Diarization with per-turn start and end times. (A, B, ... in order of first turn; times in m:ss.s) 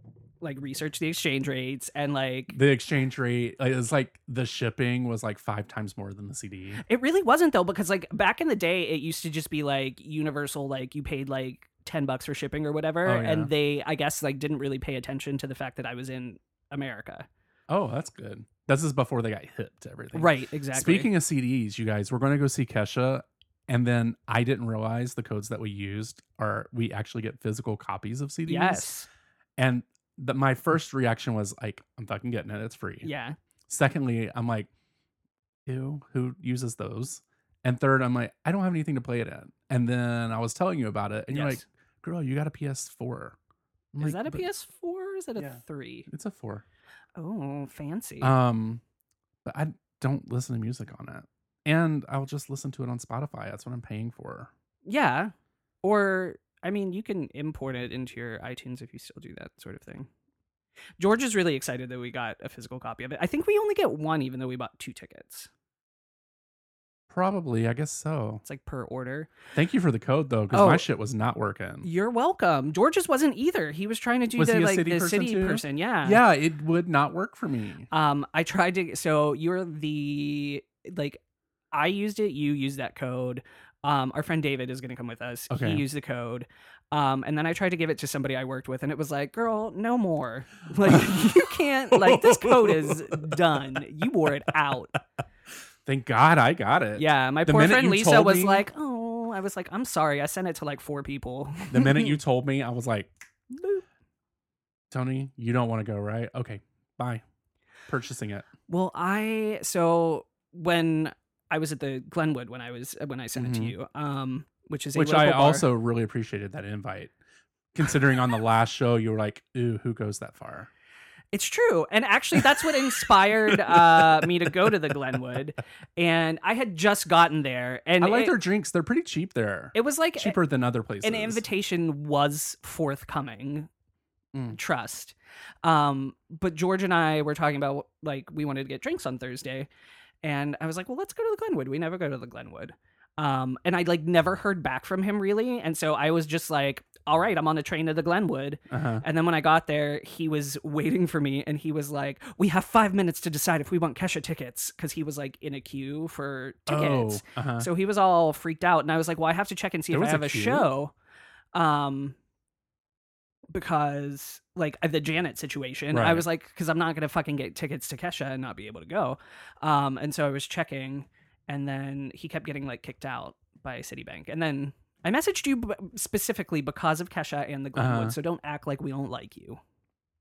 0:00.4-0:02.6 A
0:02.5-0:06.8 B
0:06.8-0:17.3 A
0:13.0-0:13.5 B
0:17.7-0:28.9 B
0:20.1-0:21.1 A
0:28.5-0:29.1 A
0:29.6-0:33.1 B
0:33.0-0:33.4 A
0:33.7-0:34.7 B
0:35.7-0:43.4 B
0:41.3-0:41.6 A
0:43.9-0:44.5 B
0:44.0-0:46.1 A
0:45.4-0:46.6 B
0:47.2-0:48.3 A
0:48.2-0:48.8 B
0:49.4-0:54.5 B
0:54.9-1:00.1 A
1:01.0-1:05.5 A
1:07.1-1:08.4 B
1:08.4-1:09.3 A
1:09.5-1:11.9 B
1:10.5-1:10.9 A
1:11.8-1:16.2 A
1:14.3-1:17.9 B
1:17.9-1:21.2 A
1:21.7-1:35.0 A
1:25.5-1:25.9 B
1:30.8-1:33.8 B
1:35.8-1:38.7 B
1:37.0-1:42.2 A
1:41.7-1:43.1 B
1:43.5-1:43.8 A
1:44.9-1:47.2 B
1:47.9-1:48.5 B
1:48.7-1:55.7 A
1:53.4-1:53.8 B
1:55.0-1:57.1 B
1:57.7-2:00.7 B
2:01.3-2:08.4 A
2:03.5-2:04.8 B
2:08.0-2:11.4 B
2:09.7-2:10.4 A
2:11.0-2:13.7 A
2:14.3-2:14.6 B
2:14.5-2:19.7 A
2:20.2-2:40.9 A
2:28.7-2:29.0 B
2:36.7-2:37.7 B
2:39.9-2:40.7 B
2:41.5-2:42.2 A
2:43.5-2:59.6 A
2:45.9-2:46.3 B
2:57.8-2:58.2 B